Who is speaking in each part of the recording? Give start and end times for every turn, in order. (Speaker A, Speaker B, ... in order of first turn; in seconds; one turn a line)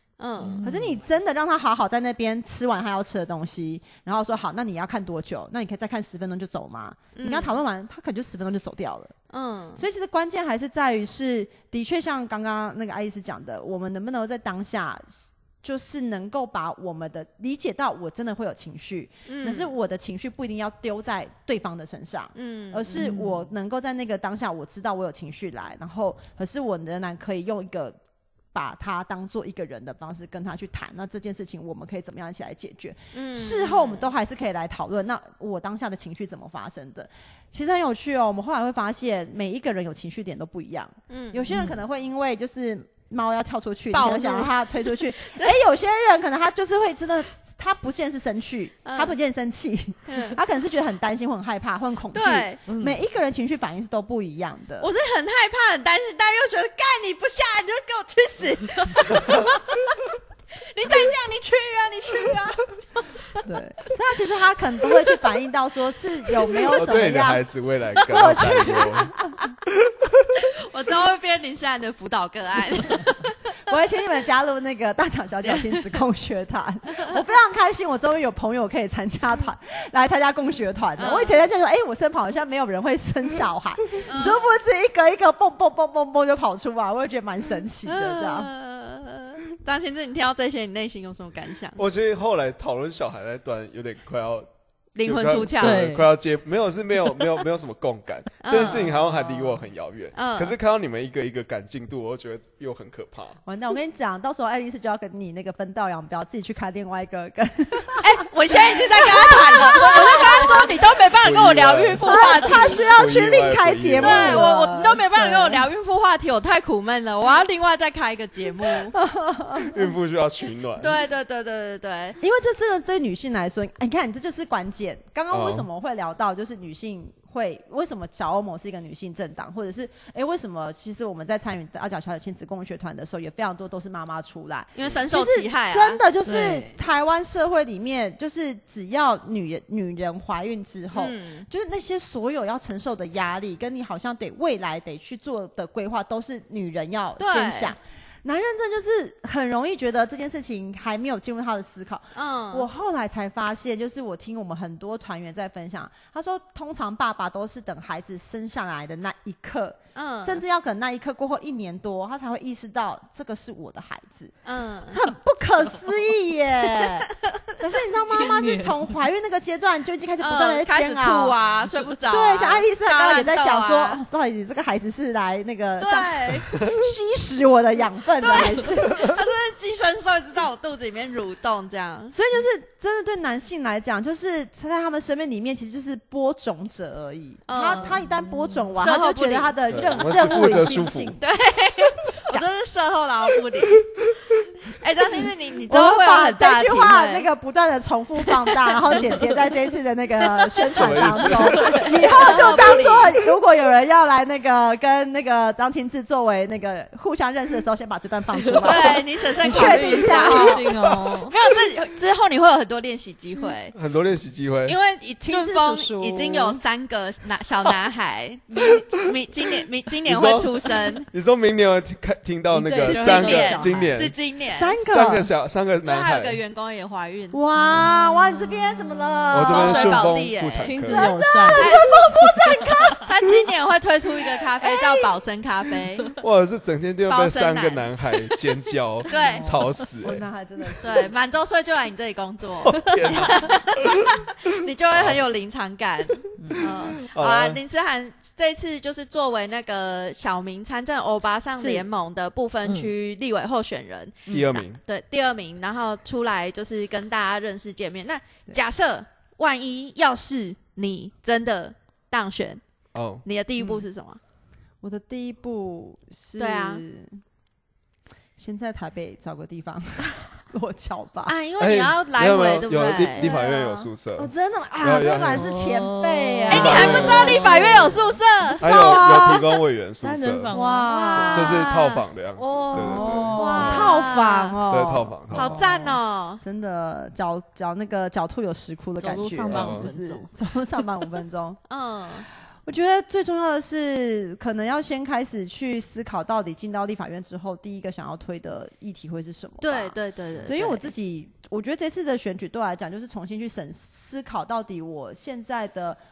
Speaker A: 0.2-0.6
Speaker B: 0.4-1.0
Speaker C: 0.6-9.1
Speaker A: 7.2-7.6
Speaker A: 9.3-9.8
Speaker C: 9.8-27.9
Speaker A: 19.2-19.7
Speaker A: 22.3-23.1
Speaker B: 22.9-23.4
Speaker C: 28.5-54.9
Speaker A: 33.1-34.1
Speaker A: 41.1-41.5
Speaker B: 41.5-41.8
Speaker A: 43.9-45.6
Speaker A: 48.8-49.1
Speaker A: 50.1-50.4
Speaker A: 52.1-52.6
Speaker B: 52.7-53.0
Speaker A: 54.8-60.0
Speaker A: 60.6-63.4
Speaker C: 63.4-67.4
Speaker A: 66.4-66.7
Speaker D: 66.7-69.2
Speaker C: 68.0-69.5
Speaker A: 68.1-68.7
Speaker D: 69.7-70.3
Speaker A: 70.4-73.5
Speaker C: 73.7-88.5
Speaker A: 75.4-76.0
Speaker A: 81.0-81.4
Speaker A: 84.1-84.6
Speaker A: 87.8-91.8
Speaker D: 91.8-103.4
Speaker A: 95.0-95.8
Speaker B: 95.6-96.1
Speaker A: 98.4-99.0
Speaker C: 98.5-99.6
Speaker A: 100.1-100.5
Speaker C: 103.4-110.9
Speaker A: 108.0-112.9
Speaker D: 111.2-114.5
Speaker C: 112.0-115.7
Speaker A: 114.0-118.9
Speaker C: 118.8-119.9
Speaker D: 119.6-121.0
Speaker A: 120.8-122.2
Speaker C: 122.2-164.3
Speaker D: 125.3-125.7
Speaker A: 134.7-136.0
Speaker B: 136.2-136.7
Speaker A: 140.9-141.5
Speaker A: 147.2-147.7
Speaker A: 152.1-152.7
Speaker A: 159.9-160.4
Speaker A: 164.4-165.0
Speaker C: 164.9-171.4
Speaker B: 168.1-168.9
Speaker A: 170.2-174.0
Speaker C: 172.1-179.1
Speaker A: 175.8-176.5
Speaker A: 178.2-182.1
Speaker C: 182.1-191.2
Speaker A: 187.5-188.0
Speaker A: 188.8-190.6
Speaker D: 189.7-191.2
Speaker A: 191.2-193.9
Speaker A: 194.7-197.3
Speaker C: 195.7-210.7
Speaker A: 198.2-199.2
Speaker A: 200.2-203.2
Speaker D: 200.7-201.9
Speaker B: 208.3-208.7
Speaker A: 208.6-210.7
Speaker B: 209.5-211.3
Speaker A: 211.3-213.7
Speaker D: 213.7-214.8
Speaker A: 214.7-221.1
Speaker C: 215.2-216.6
Speaker D: 220.0-224.2
Speaker B: 222.5-223.9
Speaker A: 222.8-224.7
Speaker C: 222.9-223.7
Speaker C: 224.5-225.3
Speaker D: 224.8-226.4
Speaker A: 225.8-227.4
Speaker C: 227.3-230.1
Speaker D: 229.3-231.1
Speaker A: 229.4-230.8
Speaker B: 230.6-231.7
Speaker C: 230.9-233.1
Speaker A: 231.6-236.1
Speaker C: 234.6-235.1
Speaker D: 236.2-240.2
Speaker A: 237.1-237.9
Speaker A: 239.1-239.5
Speaker C: 239.1-241.1
Speaker A: 240.8-262.6
Speaker D: 242.6-243.9
Speaker D: 244.9-245.2
Speaker D: 246.6-247.6
Speaker C: 251.6-251.8
Speaker C: 254.3-254.6
Speaker D: 254.3-254.8
Speaker D: 262.9-263.2
Speaker A: 263.2-264.2
Speaker C: 263.6-263.8
Speaker C: 264.8-267.2
Speaker A: 266.4-266.8
Speaker C: 268.4-271.3
Speaker A: 271.2-273.4
Speaker D: 271.6-275.5
Speaker C: 273.2-279.4
Speaker B: 275.3-277.9
Speaker A: 276.5-279.5
Speaker D: 276.5-277.9
Speaker D: 278.6-280.6
Speaker B: 280.0-281.0
Speaker C: 280.5-281.7
Speaker A: 280.9-282.1
Speaker D: 281.2-284.0
Speaker B: 282.4-283.4
Speaker C: 282.7-291.6
Speaker A: 283.3-284.6
Speaker D: 284.7-285.6
Speaker A: 285.3-286.4
Speaker B: 289.0-290.3
Speaker D: 289.5-289.9
Speaker A: 291.7-292.3
Speaker C: 292.6-306.0
Speaker A: 299.6-300.9